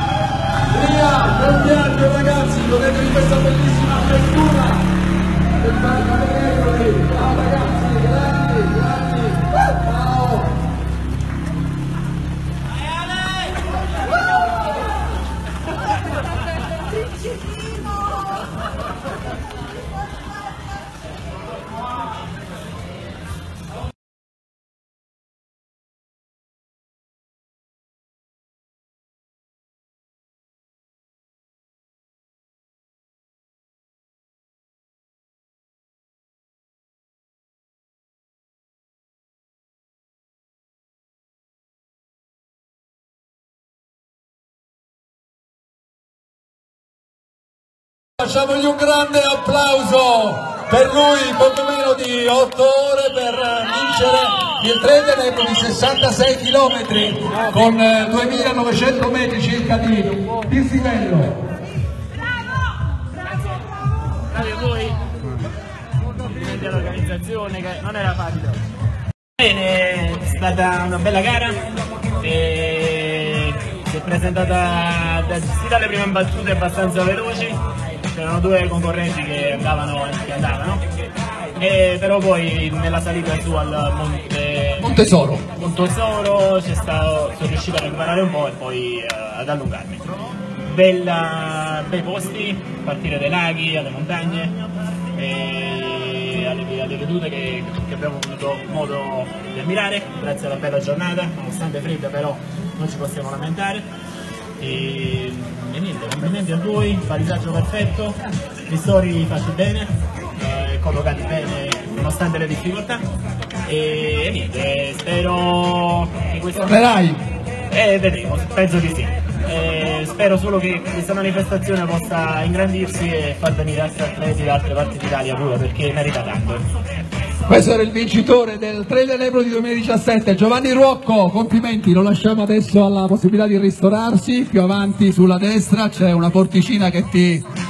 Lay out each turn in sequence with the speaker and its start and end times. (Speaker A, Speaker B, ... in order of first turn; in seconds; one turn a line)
Speaker A: 0.7-4.9
Speaker A: 5.6-10.5
Speaker A: 48.2-61.4
Speaker B: 64.3-65.0
Speaker B: 66.2-68.6
Speaker B: 69.4-71.6
Speaker B: 72.2-80.8
Speaker B: 81.6-90.1
Speaker A: 84.8-85.4
Speaker B: 90.6-103.9
Speaker B: 104.6-113.0
Speaker B: 113.7-116.9
Speaker A: 116.7-117.2
Speaker B: 117.7-126.6
Speaker A: 127.5-137.4